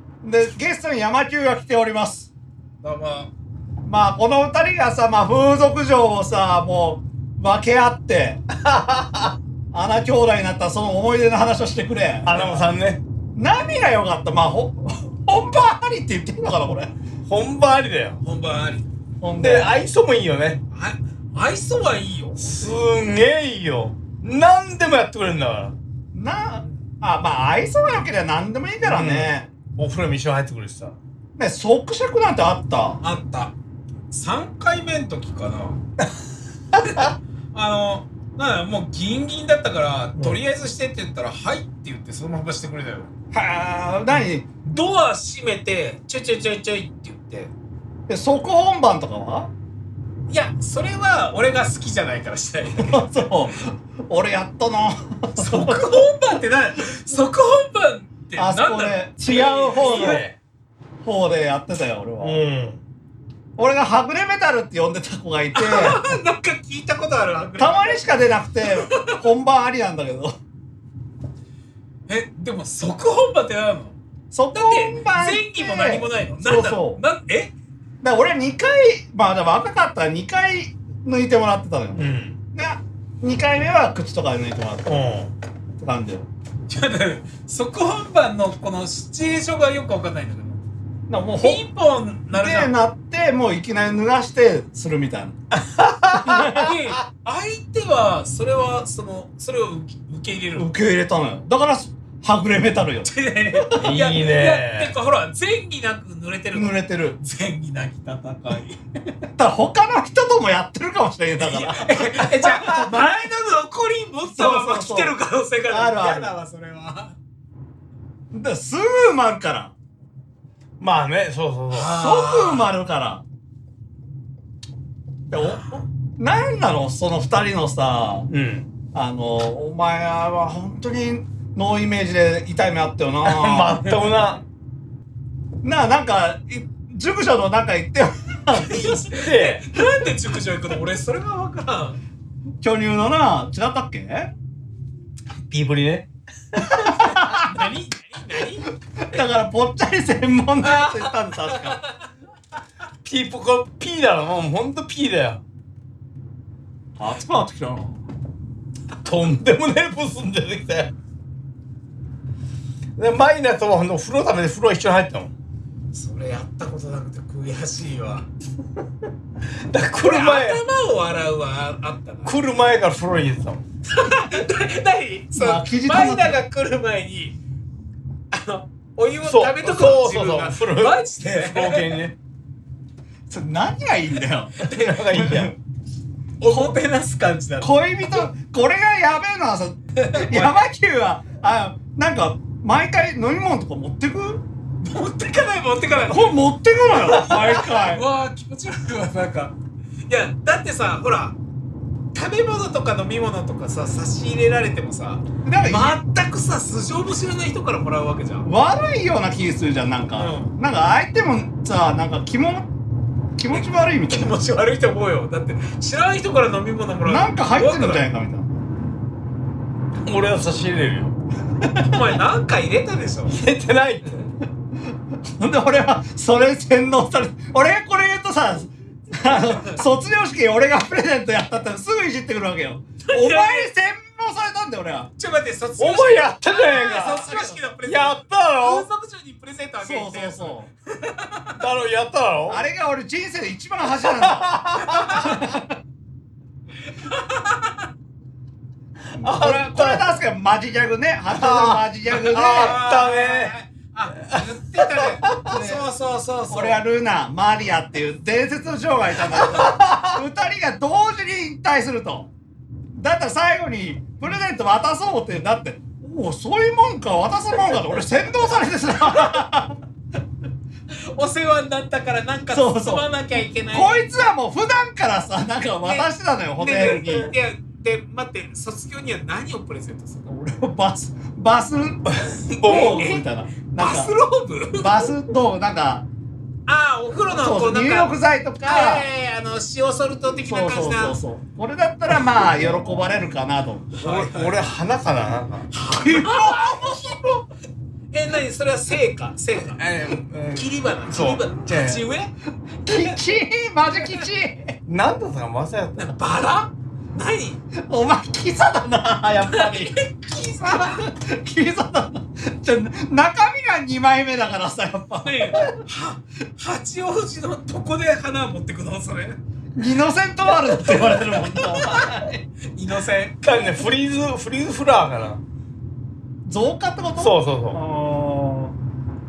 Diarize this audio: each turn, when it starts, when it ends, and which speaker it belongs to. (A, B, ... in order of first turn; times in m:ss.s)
0:00.2-0:02.3 A
0:02.8-0:03.3 B
0:03.8-0:08.4 A
0:08.7-0:09.3 C
0:09.7-0:12.6 A
0:12.2-0:13.0 C
0:13.4-0:16.9 A
0:17.3-0:18.2 C
0:18.2-0:18.9 B
0:19.2-0:19.7 A
0:19.3-0:20.6 C
0:20.7-0:22.8 B
0:22.4-0:25.8 C
0:26.1-0:29.5 A
0:28.8-0:31.0 C
0:31.4-0:33.0 A
0:33.0-0:33.5 B
0:34.1-0:35.8 B
0:36.8-0:43.1 B
0:43.3-0:44.5 A
0:44.6-0:47.5 B
0:48.1-0:49.5 A
0:50.3-0:53.3 B
0:52.8-0:56.1 A
0:55.4-1:00.2 B
0:58.4-1:00.3 A
0:59.2-1:00.4 C
1:01.0-1:02.4 A
1:02.2-1:02.8 C
1:03.6-1:06.0 A
1:05.6-1:08.1 B
1:07.6-1:10.3 A
1:08.7-1:09.2 B
1:12.1-1:14.0 B
1:14.3-1:17.0 A
1:14.5-1:17.5 B
1:18.0-1:25.0 A
1:22.0-1:22.4 C
1:24.9-1:25.3 C
1:25.8-1:26.3 A
1:26.7-1:30.6 B
1:31.1-1:31.6 A
1:31.4-1:32.7 B
1:32.3-1:35.4 A
1:35.6-1:36.7 C
1:36.2-1:40.7 B
1:36.3-1:36.6 A
1:40.6-1:44.0 A
1:43.0-1:48.8 B
1:43.8-1:44.9 C
1:46.5-1:47.2 A
1:49.4-1:52.1 A
1:51.4-1:57.2 B
1:54.3-1:55.2 A
1:55.7-1:56.3 A
1:58.3-1:59.7 A
2:00.8-2:01.9 C
2:01.7-2:02.7 B
2:01.9-2:03.2 A
2:05.3-2:08.3 A
2:05.4-2:05.8 B
2:08.3-2:08.7 C
2:08.9-2:13.8 A
2:13.2-2:14.4 C
2:15.6-2:19.0 A
2:18.5-2:22.0 B
2:19.0-2:19.7 C
2:22.6-2:24.3 A
2:25.5-2:26.1 C
2:26.6-2:27.0 C
2:26.9-2:28.7 B
2:27.0-2:27.5 A
2:29.0-2:31.8 A
2:30.6-2:31.9 B
2:33.0-2:35.4 C
2:37.0-2:38.0 A
2:39.0-2:40.9 C
2:43.0-2:45.3 C
2:45.9-2:48.3 B
2:49.7-2:50.6 C
2:50.0-2:52.4 B
2:52.3-2:53.6 C
2:53.9-2:57.4 B
2:55.3-2:56.4 A
2:58.3-3:01.9 B
2:59.2-3:02.1 C
3:03.3-3:04.5 A
3:04.6-3:05.0 B
3:04.6-3:05.6 C
3:05.1-3:05.5 A
3:06.4-3:08.3 B
3:06.5-3:06.7 A
3:07.6-3:14.4 A
3:10.0-3:10.6 B
3:14.8-3:16.3 B
3:16.1-3:18.0 A
3:17.0-3:19.6 B
3:20.1-3:21.4 B
3:22.1-3:28.5 B
3:25.4-3:26.0 A
3:28.4-3:32.7 A
3:30.2-3:30.5 B
3:33.4-3:34.4 A
3:33.5-3:38.0 B
3:37.0-3:38.6 A
3:40.0-3:41.2 C
3:41.8-3:43.4 B
3:43.3-3:44.2 C
3:45.3-3:55.1 A
3:49.3-3:49.8 B
3:53.0-3:53.7 B
3:55.2-4:01.6 B
3:55.8-3:58.9 C
3:59.8-4:00.7 A
4:01.6-4:02.6 C
4:02.5-4:05.8 A
4:04.0-4:05.4 C
4:04.8-4:05.4 B
4:06.9-4:07.8 B
4:09.1-4:10.1 C
4:09.2-4:12.8 A
4:11.3-4:13.5 C
4:12.3-4:16.8 B
4:14.2-4:15.4 C
4:15.5-4:15.9 A
4:16.5-4:22.3 A
4:19.4-4:20.2 C
4:22.9-4:29.8 A
4:30.9-4:34.1 B
4:32.5-4:33.0 A
4:33.7-4:37.3 A
4:35.8-4:40.3 B
4:40.3-4:44.2 A
4:42.2-4:43.1 C
4:42.7-4:43.2 B
4:43.8-4:45.1 B
4:44.7-4:46.0 A
4:46.7-4:51.2 B
4:47.3-4:49.1 A
4:50.4-4:54.0 A
4:54.0-4:55.7 C
4:54.0-4:54.6 B
4:55.7-4:57.0 B
4:55.9-4:57.4 A
4:58.1-4:59.8 B
4:59.7-5:02.0 C
5:00.5-5:02.3 B
5:02.8-5:04.8 A
5:02.9-5:03.2 B
5:04.9-5:06.1 C
5:06.0-5:07.6 B
5:07.8-5:10.0 A
5:09.4-5:11.1 B
5:10.7-5:15.7 A
5:15.2-5:19.4 B
5:19.8-5:22.4 A
5:20.8-5:22.2 B
5:22.7-5:23.9 B
5:23.4-5:25.4 C
5:26.4-5:28.7 A
5:27.2-5:27.8 C